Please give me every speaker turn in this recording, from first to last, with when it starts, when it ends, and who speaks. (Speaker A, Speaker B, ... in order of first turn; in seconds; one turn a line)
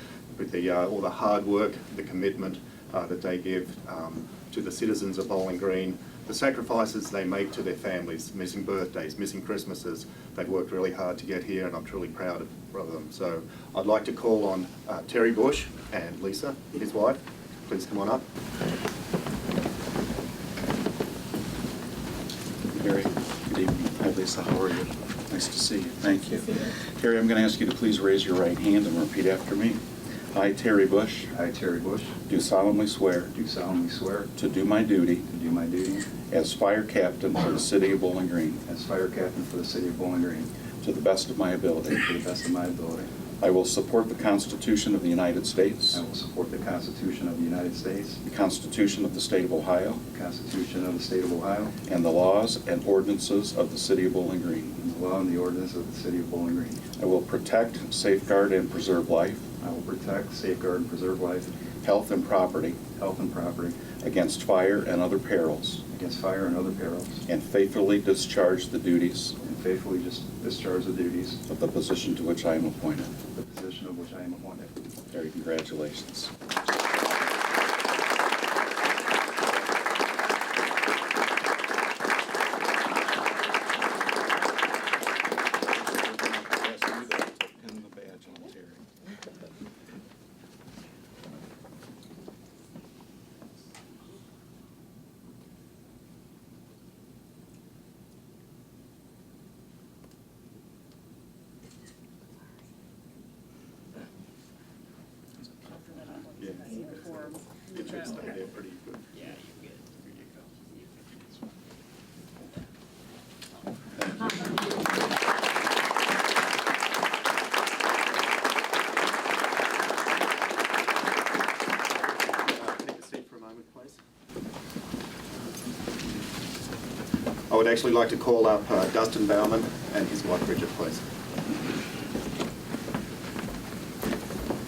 Speaker A: 0.4-18.2
Speaker B: 22.7-29.8
Speaker B: 30.3-31.3
Speaker C: 31.3-32.1
Speaker B: 32.3-33.3
Speaker C: 33.3-34.3
Speaker B: 34.3-35.3
Speaker C: 35.3-36.1
Speaker B: 36.3-38.6
Speaker C: 38.6-40.5
Speaker B: 40.8-42.1
Speaker C: 42.1-43.1
Speaker B: 43.4-46.0
Speaker C: 45.9-48.2
Speaker B: 48.2-50.0
Speaker C: 50.1-51.7
Speaker B: 51.9-54.7
Speaker C: 54.8-56.8
Speaker B: 57.0-59.4
Speaker C: 59.6-61.5
Speaker B: 61.8-62.8
Speaker C: 62.9-63.8
Speaker B: 64.0-65.8
Speaker C: 65.9-67.2
Speaker B: 67.3-69.3
Speaker C: 69.4-71.4
Speaker B: 71.5-73.1
Speaker C: 73.3-74.8
Speaker B: 75.1-76.3
Speaker B: 85.8-88.8
Speaker A: 106.4-109.4
Speaker A: 110.0-110.4
Speaker A: 122.0-124.0
Speaker A: 127.5-131.0